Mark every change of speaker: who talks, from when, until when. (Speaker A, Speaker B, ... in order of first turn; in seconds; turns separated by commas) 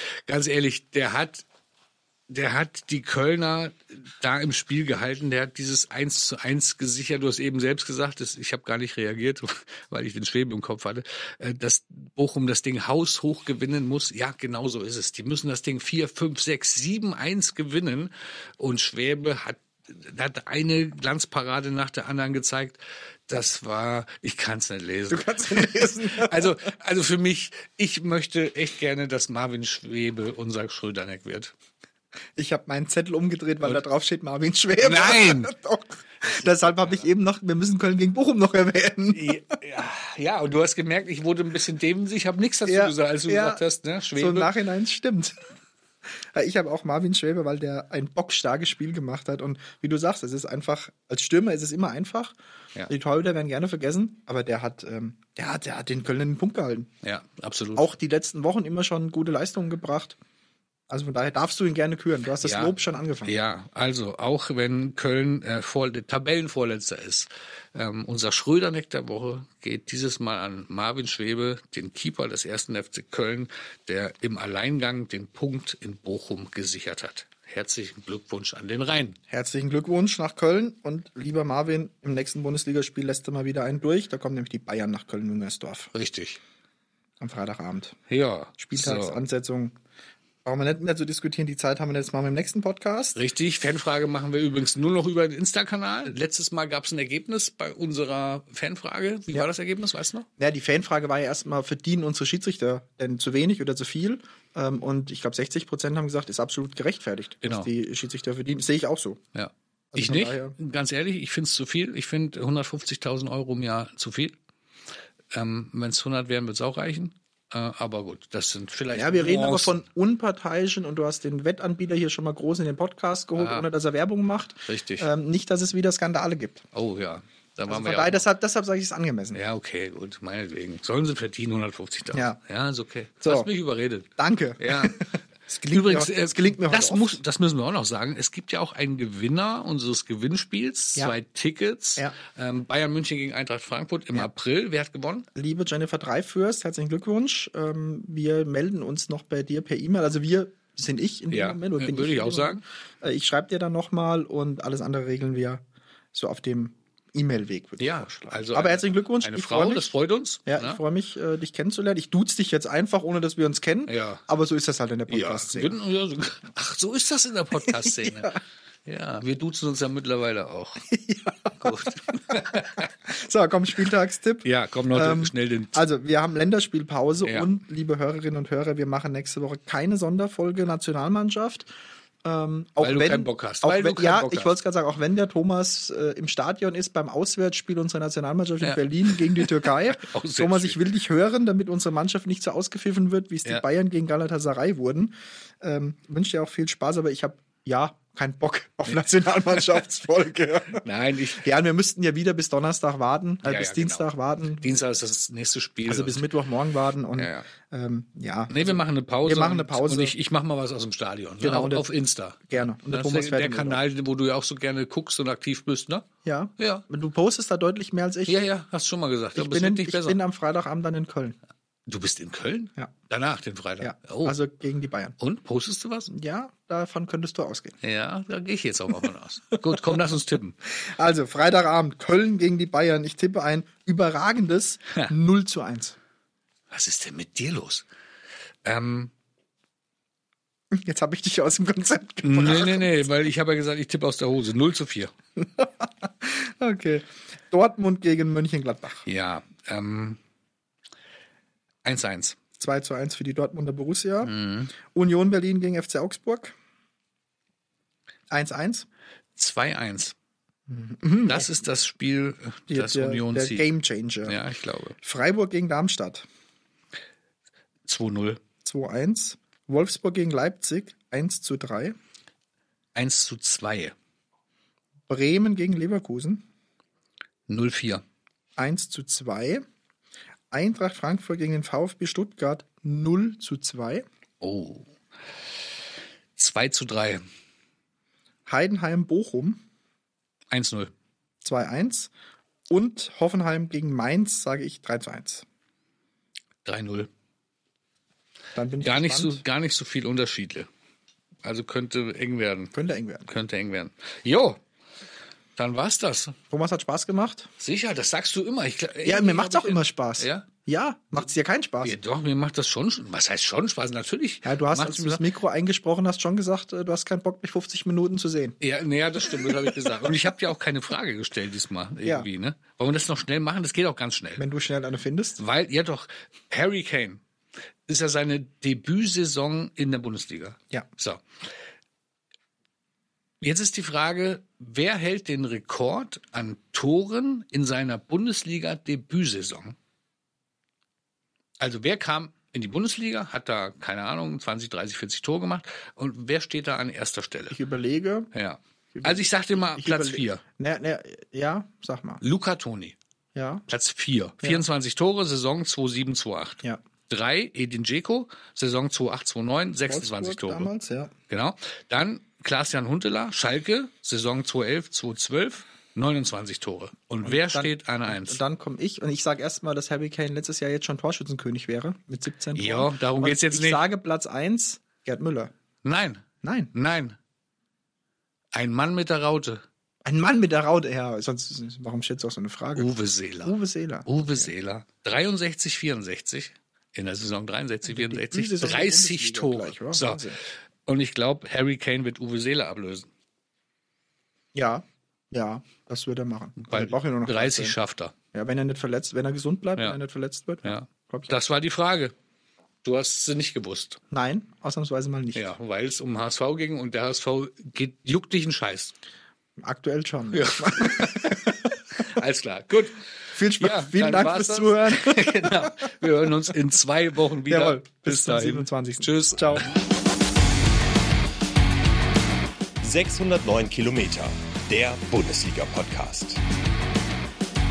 Speaker A: 0.3-1.4, Speaker A: 2.3-31.5, Speaker B: 25.1-26.6, Speaker B: 32.4-39.4, Speaker A: 34.8-35.5, Speaker A: 36.2-37.0, Speaker A: 39.1-44.5, Speaker B: 42.6-43.6, Speaker B: 44.1-45.5, Speaker B: 46.3-52.3, Speaker B: 52.9-56.9, Speaker A: 57.0-57.9, Speaker B: 57.8-60.2, Speaker B: 60.9-63.3, Speaker A: 62.4-79.2, Speaker B: 79.3-85.9, Speaker A: 85.9-86.4, Speaker B: 87.2-88.0, Speaker A: 88.1-89.2, Speaker B: 88.6-89.7, Speaker B: 90.4-93.2, Speaker A: 93.1-100.3, Speaker B: 100.4-109.2, Speaker A: 107.4-107.7, Speaker A: 109.3-114.3, Speaker B: 109.9-110.5, Speaker A: 115.3-119.8, Speaker B: 118.9-126.6, Speaker A: 123.3-123.7, Speaker A: 124.7-125.1, Speaker A: 126.7-128.2, Speaker B: 127.7-129.4, Speaker A: 129.3-135.0, Speaker B: 132.1-132.4, Speaker B: 133.2-133.5, Speaker B: 134.2-137.2, Speaker A: 135.6-145.3, Speaker B: 145.3-159.9, Speaker A: 151.3-152.6, Speaker A: 157.8-160.8, Speaker B: 160.4-165.7, Speaker A: 163.9-164.2, Speaker A: 165.1-170.9, Speaker B: 167.6-168.4, Speaker B: 170.9-181.7, Speaker A: 171.6-172.9, Speaker A: 174.4-175.8, Speaker A: 177.2-177.5, Speaker B: 182.2-204.8, Speaker A: 182.8-184.5, Speaker A: 188.6-190.8, Speaker A: 200.7-201.4, Speaker A: 203.4-204.1, Speaker A: 204.6-206.3, Speaker B: 205.9-210.1, Speaker A: 207.2-207.5, Speaker A: 208.5-216.8, Speaker B: 211.4-211.9, Speaker B: 212.5-213.8, Speaker B: 216.2-218.4, Speaker A: 218.2-220.2, Speaker B: 219.3-221.4, Speaker A: 221.9-224.3, Speaker B: 223.8-225.2, Speaker A: 225.2-226.1, Speaker B: 226.1-227.8, Speaker A: 227.8-230.6, Speaker B: 230.8-236.0, Speaker A: 236.7-237.8, Speaker A: 238.6-239.1, Speaker B: 240.7-243.3, Speaker A: 242.2-245.1, Speaker B: 245.4-249.1, Speaker A: 249.1-250.2, Speaker A: 251.8-252.4, Speaker B: 252.6-256.5, Speaker A: 254.2-254.7, Speaker B: 258.3-258.9, Speaker A: 259.4-260.1, Speaker B: 260.7-261.5, Speaker A: 261.2-263.7, Speaker B: 262.7-264.4, Speaker A: 264.2-264.9, Speaker B: 265.0-266.3, Speaker A: 267.9-268.4, Speaker B: 268.6-271.9, Speaker A: 272.9-273.9, Speaker B: 275.1-276.4, Speaker A: 277.5-278.0, Speaker B: 278.6-279.6, Speaker B: 280.5-284.1, Speaker A: 284.4-284.9, Speaker A: 286.4-287.2, Speaker B: 288.4-289.6, Speaker A: 290.5-290.9, Speaker B: 291.4-292.1, Speaker B: 292.7-295.4, Speaker A: 296.6-297.1, Speaker B: 298.5-299.4, Speaker A: 298.8-300.7, Speaker A: 301.4-302.7, Speaker B: 302.7-303.3, Speaker A: 303.3-304.6, Speaker A: 305.6-306.4, Speaker B: 306.5-307.5, Speaker A: 307.6-310.5, Speaker B: 309.0-312.0, Speaker A: 311.8-315.2, Speaker B: 314.4-318.6, Speaker A: 318.6-324.4, Speaker B: 319.2-319.9, Speaker B: 324.4-325.4, Speaker A: 325.4-327.2, Speaker A: 327.9-331.2, Speaker A: 333.4-339.8, Speaker A: 341.6-347.6, Speaker B: 347.5-348.3, Speaker A: 348.3-350.4, Speaker B: 348.9-352.2, Speaker A: 352.2-353.0, Speaker B: 353.3-353.6, Speaker A: 353.7-360.7, Speaker B: 359.9-361.1, Speaker A: 361.3-368.4, Speaker B: 367.2-375.5, Speaker A: 372.5-373.8, Speaker A: 375.8-377.2, Speaker B: 376.4-376.7, Speaker A: 378.5-379.6, Speaker B: 380.0-382.9, Speaker A: 382.7-383.5, Speaker B: 383.4-384.5, Speaker A: 384.1-390.2, Speaker B: 387.9-390.4, Speaker A: 390.9-393.1, Speaker B: 394.5-397.8, Speaker A: 396.6-398.1, Speaker B: 398.3-401.3, Speaker A: 400.6-402.1, Speaker A: 402.8-404.0, Speaker B: 404.1-405.5, Speaker A: 405.3-408.9, Speaker B: 409.6-411.6, Speaker A: 410.3-419.7, Speaker B: 413.3-415.8, Speaker B: 417.5-419.7, Speaker C: 422.8-426.4